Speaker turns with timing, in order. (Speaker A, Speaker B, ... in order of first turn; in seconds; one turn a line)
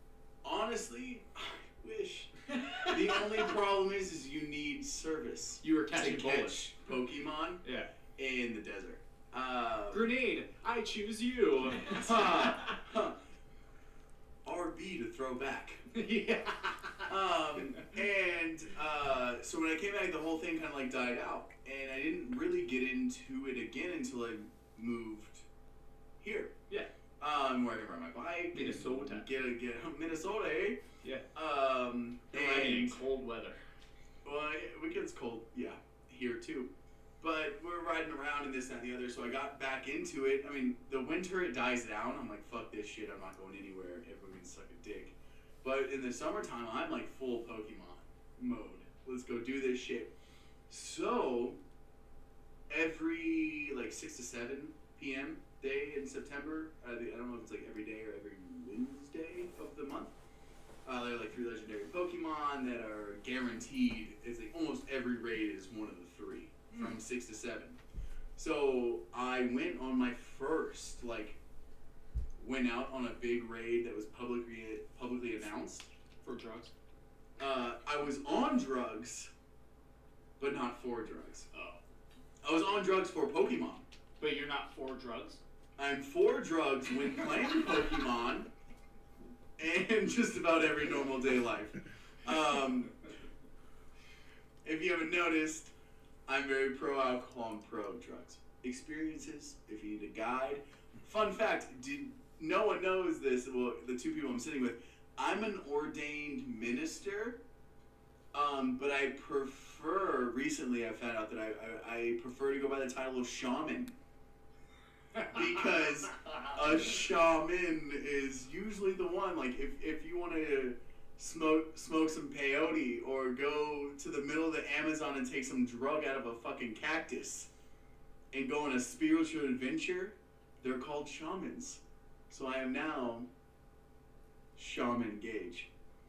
Speaker A: 0.4-7.6
Speaker B: 5.6-6.6
Speaker B: 7.6-7.9
Speaker A: 8.2-10.1
Speaker B: 9.9-12.3
Speaker A: 11.8-13.2
Speaker A: 14.4-15.8
Speaker B: 15.9-17.1
Speaker A: 17.1-25.4
Speaker A: 26.2-26.5
Speaker A: 27.2-30.8
Speaker B: 28.5-29.2
Speaker A: 31.3-33.0
Speaker B: 32.3-33.6
Speaker A: 34.2-36.7
Speaker A: 37.2-50.1
Speaker A: 50.7-51.6
Speaker A: 52.7-60.1
Speaker A: 60.8-67.8
Speaker A: 68.3-71.4
Speaker A: 72.4-75.9
Speaker B: 76.2-76.7
Speaker A: 77.4-79.3
Speaker A: 80.4-81.5
Speaker B: 81.5-81.8
Speaker A: 82.4-83.8
Speaker B: 84.2-85.4
Speaker A: 85.8-88.5
Speaker A: 89.6-92.9
Speaker A: 94.6-95.7
Speaker A: 96.3-107.4
Speaker A: 108.3-113.9
Speaker A: 115.3-127.5
Speaker A: 128.3-133.3
Speaker A: 134.6-135.7